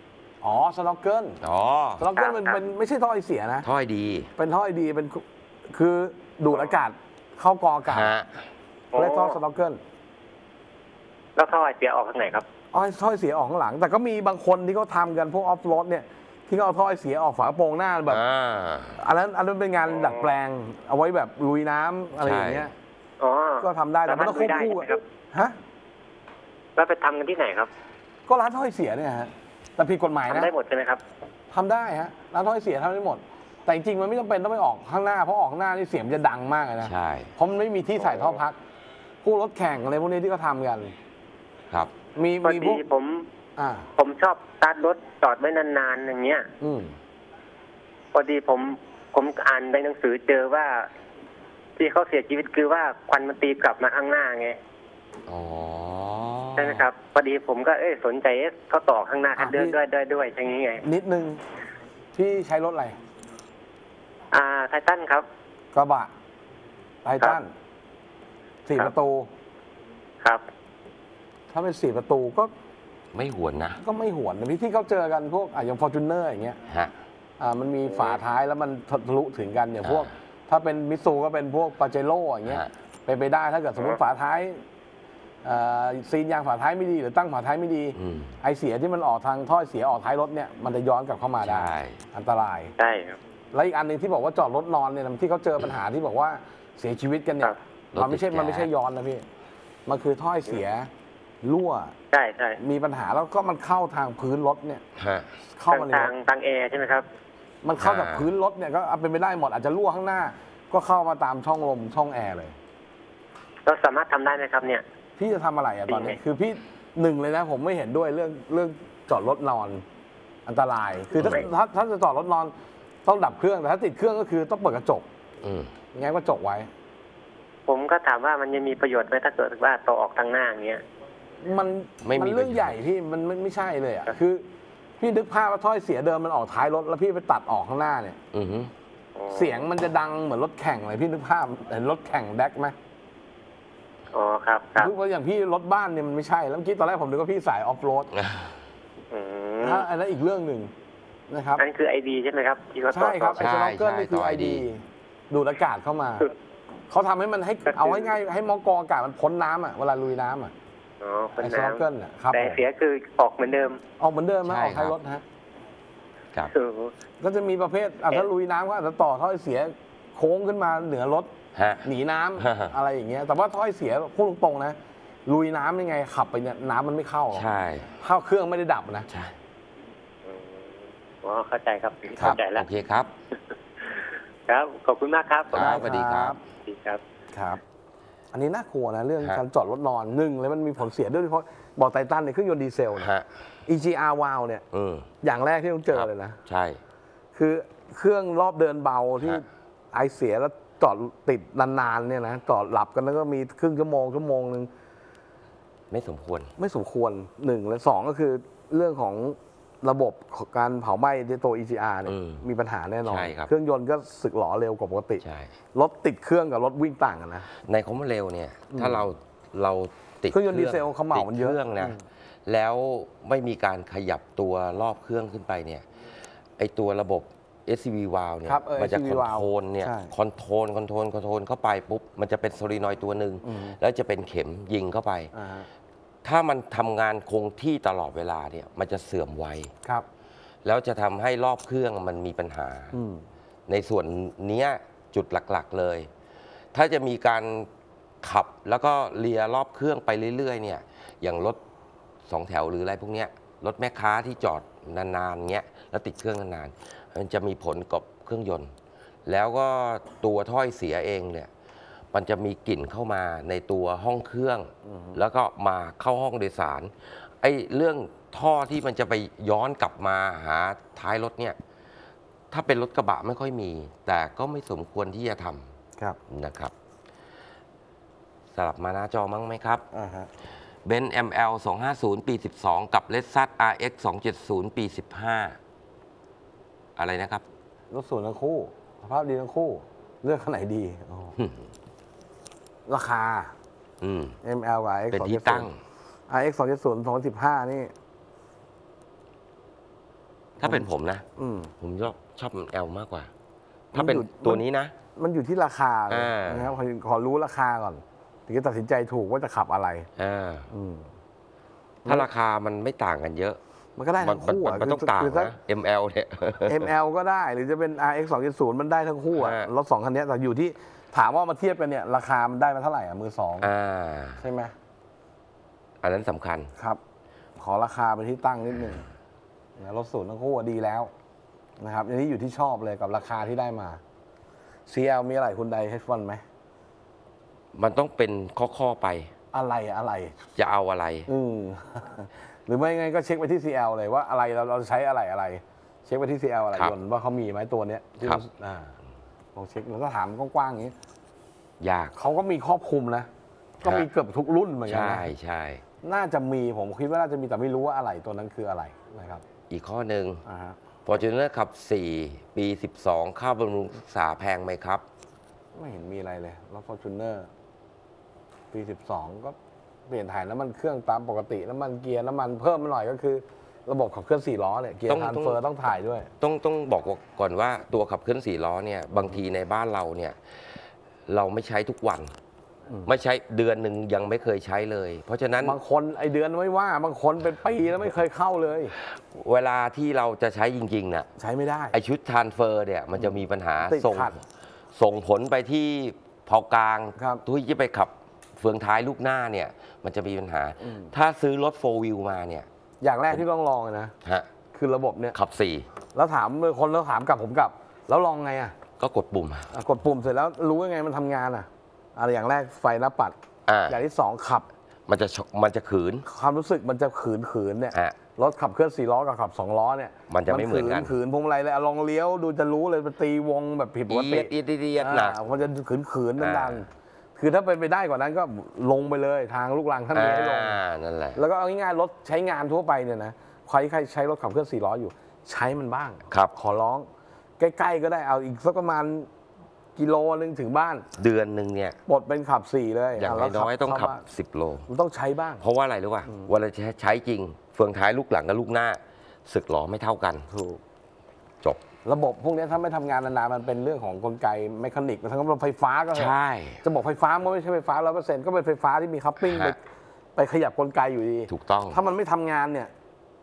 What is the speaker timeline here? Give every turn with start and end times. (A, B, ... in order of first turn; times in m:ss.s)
0:00.4-0:01.4 A
0:01.4-0:02.1 B
0:02.0-0:03.7 A
0:02.2-0:02.6 C
0:03.6-0:04.3 B
0:04.4-0:08.1 A
0:07.9-0:08.4 B
0:08.9-0:09.4 C
0:09.0-0:09.8 A
0:11.4-0:12.4 C
0:12.7-0:18.2 A
0:18.1-0:19.0 B
0:19.0-0:22.7 A
0:19.9-0:20.3 C
0:22.2-0:22.7 B
0:23.2-0:25.0 C
0:23.6-0:25.6 A
0:26.8-0:27.7 C
0:28.3-0:30.5 A
0:30.3-0:31.0 C
0:31.5-0:38.6 A
0:36.8-0:37.3 B
0:39.2-0:40.9 A
0:42.2-0:42.8 A
0:42.4-0:43.3 C
0:43.6-0:43.9 A
0:44.0-0:46.5 C
0:46.6-0:47.0 A
0:48.1-0:50.9 C
0:51.8-0:54.6 C
0:55.3-0:56.9 B
0:56.6-1:00.8 C
0:59.4-0:59.8 A
1:00.8-1:01.4 A
1:02.1-1:03.0 A
1:04.3-1:05.2 C
1:05.7-1:06.1 A
1:07.0-1:07.5 A
1:08.6-1:09.3 A
1:11.5-1:12.5 A
1:13.1-1:13.8 B
1:13.8-1:16.6 A
1:17.4-1:24.6 A
1:19.8-1:20.1 B
1:22.5-1:22.7 B
1:25.4-1:32.7 A
1:28.0-1:28.4 B
1:31.4-1:32.0 B
1:32.8-1:33.2 C
1:33.5-1:39.2 A
1:37.9-1:38.7 B
1:39.9-1:40.9 A
1:41.4-1:41.9 A
1:42.1-1:42.6 C
1:42.6-1:44.8 A
1:45.0-1:45.3 B
1:45.4-1:46.1 A
1:45.7-1:47.0 C
1:47.6-1:52.6 A
1:47.8-1:48.3 B
1:53.7-1:54.8 C
1:55.2-1:59.8 A
1:55.9-1:56.2 C
2:00.5-2:02.5 A
2:01.2-2:01.5 B
2:03.0-2:05.1 A
2:05.4-2:05.7 B
2:05.9-2:06.7 A
2:07.7-2:10.8 C
2:11.4-2:14.4 A
2:12.0-2:12.8 B
2:15.0-2:18.2 A
2:18.3-2:18.7 B
2:19.2-2:19.7 C
2:19.3-2:22.8 A
2:24.1-2:24.9 C
2:24.8-2:28.1 A
2:28.1-2:28.5 B
2:29.1-2:29.9 C
2:29.6-2:30.7 A
2:31.3-2:31.6 A
2:31.6-2:33.5 C
2:32.9-2:36.3 A
2:33.4-2:34.7 B
2:36.9-2:40.5 A
2:37.7-2:38.1 C
2:41.0-2:43.8 C
2:41.4-2:42.6 A
2:44.0-2:45.2 A
2:44.4-2:45.0 B
2:46.5-2:46.9 C
2:47.2-2:51.3 A
2:51.6-2:51.9 B
2:51.8-2:59.1 A
2:52.4-2:52.7 B
2:57.3-2:58.0 B
2:59.1-2:59.3 B
3:00.3-3:00.7 C
3:01.2-3:02.7 C
3:02.2-3:03.1 B
3:04.5-3:05.6 C
3:05.5-3:06.4 B
3:05.5-3:06.4 A
3:06.7-3:07.0 C
3:07.3-3:07.6 A
3:08.3-3:13.1 A
3:13.0-3:13.3 B
3:13.7-3:14.6 A
3:14.7-3:15.1 B
3:15.2-3:16.4 A
3:15.9-3:16.8 B
3:17.4-3:24.7 A
3:25.9-3:26.5 B
3:26.6-3:37.5 A
3:32.1-3:32.4 B
3:33.0-3:33.5 B
3:35.2-3:35.5 B
3:37.6-3:45.8 B
3:38.7-3:39.1 A
3:40.3-3:42.0 A
3:46.6-3:55.3 B
3:48.4-3:50.2 A
3:53.4-3:53.8 A
3:55.3-3:55.7 A
3:56.2-3:59.7 B
4:00.6-4:03.0 B
4:02.9-4:03.3 A
4:03.7-4:06.1 B
4:06.7-4:07.7 B
4:08.2-4:11.6 B
4:12.3-4:18.7 B
4:19.3-4:21.5 B
4:22.1-4:31.6 B
4:24.8-4:25.2 A
4:32.5-4:35.7 B
4:36.3-4:36.7 B
4:38.5-4:39.8 B
4:39.9-4:40.3 A
4:40.8-4:45.6 B
4:47.0-4:47.4 B
4:47.9-4:51.4 A
4:51.4-4:51.6 B
4:52.9-4:53.5 A
4:54.0-4:54.4 B
4:54.4-4:55.7 A
4:55.1-4:55.8 B
4:56.3-4:57.9 A
5:00.6-5:01.2 B
5:00.6-5:01.7 A
5:01.8-5:03.3 B
5:03.9-5:04.9 B
5:03.9-5:04.6 A
5:05.2-5:10.1 A
5:06.1-5:06.7 B
5:10.2-5:10.7 B
5:10.7-5:11.1 A
5:12.0-5:12.3 A
5:12.0-5:13.6 B
5:14.0-5:15.6 A
5:14.2-5:16.9 B
5:16.6-5:23.7 A
5:19.3-5:19.7 B
5:23.6-5:24.4 B
5:24.4-5:24.7 A
5:26.0-5:26.7 B
5:27.6-5:29.1 A
5:29.8-5:31.1 A
5:31.8-5:34.0 A
5:34.9-5:36.4 A
5:37.8-5:39.3 B
5:39.5-5:40.5 A
5:40.6-5:41.3 B
5:41.3-5:48.9 A
5:49.6-5:50.9 A
5:51.8-5:52.2 B
5:52.2-5:53.3 A
5:53.8-5:54.1 B
5:53.8-5:55.3 A
5:54.9-5:55.8 B
5:56.0-5:59.4 A
5:59.7-6:00.4 B
6:00.4-6:00.8 A
6:01.0-6:05.0 B
6:05.8-6:07.5 A
6:08.7-6:09.6 A
6:10.1-6:16.3 A
6:15.1-6:15.6 B
6:16.4-6:20.4 B
6:21.3-6:22.3 B
6:23.0-6:25.8 B
6:25.6-6:28.9 A
6:29.0-6:31.3 B
6:31.4-6:32.0 A
6:31.9-6:34.4 B
6:33.2-6:34.4 A
6:34.9-6:42.7 B
6:37.2-6:37.4 A
6:40.8-6:41.1 A
6:43.0-6:44.1 A
6:44.7-6:45.4 A
6:45.3-6:45.9 B
6:46.1-6:48.8 A
6:49.0-6:49.7 B
6:49.7-6:53.4 A
6:53.7-6:54.0 B
6:53.9-6:54.7 A
6:55.1-6:56.2 B
6:56.2-7:10.8 A
7:00.3-7:01.2 B
7:04.1-7:05.4 B
7:06.4-7:06.8 B
7:10.1-7:11.4 B
7:11.4-7:17.1 A
7:17.6-7:19.3 A
7:20.0-7:21.1 A
7:21.2-7:22.0 B
7:22.1-7:24.2 A
7:23.2-7:24.9 B
7:24.9-7:25.6 A
7:25.6-7:30.5 B
7:30.5-7:30.8 A
7:32.0-7:39.8 A
7:36.1-7:36.8 B
7:39.4-7:39.8 B
7:40.4-7:42.9 A
7:41.5-7:42.0 B